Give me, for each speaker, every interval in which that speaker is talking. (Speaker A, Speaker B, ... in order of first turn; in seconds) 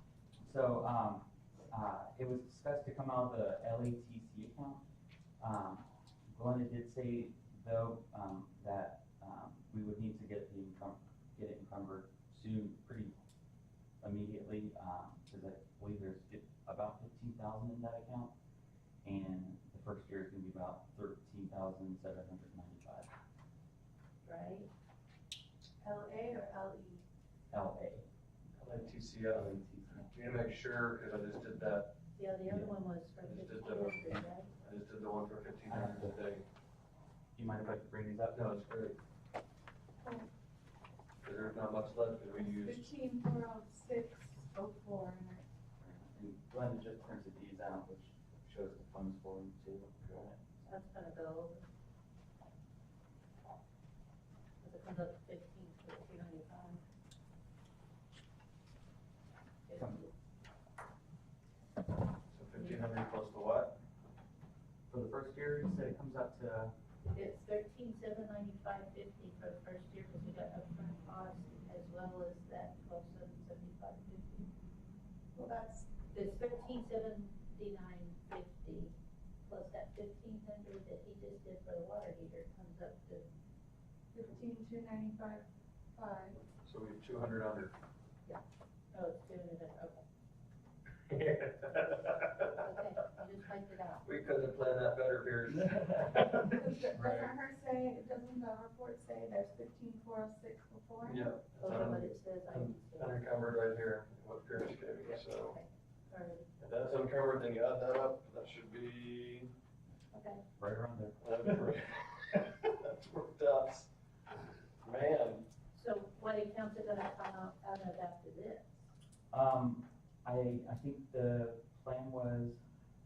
Speaker A: 0.4-4.8, 5.4-13.1, 14.0-18.3, 19.0-23.1, 27.5-28.1, 29.4-30.1, 35.7-36.1, 37.4-38.5, 45.8-50.7, 64.9-66.7, 110.6-111.2, 119.3-122.6
Speaker B: 24.2-24.7, 32.1-34.5, 50.7-51.7, 54.6-56.8, 59.7-60.1, 67.1-74.5, 76.1-78.9, 79.4-83.3, 88.9-90.0, 91.9-94.0, 101.6-103.1, 105.0-106.5, 110.1-110.4, 115.7-118.8
Speaker C: 25.8-27.0, 40.0-40.3, 42.4-45.4, 75.3-75.9, 84.1-86.4, 96.2-101.3
Speaker D: 28.6-31.9, 33.2-36.5, 38.3-39.0, 41.2-42.9, 62.3-63.8, 86.6-87.7, 91.1-92.5, 94.0-97.3, 101.0-105.5, 106.6-109.5, 111.2-113.9, 114.8-115.4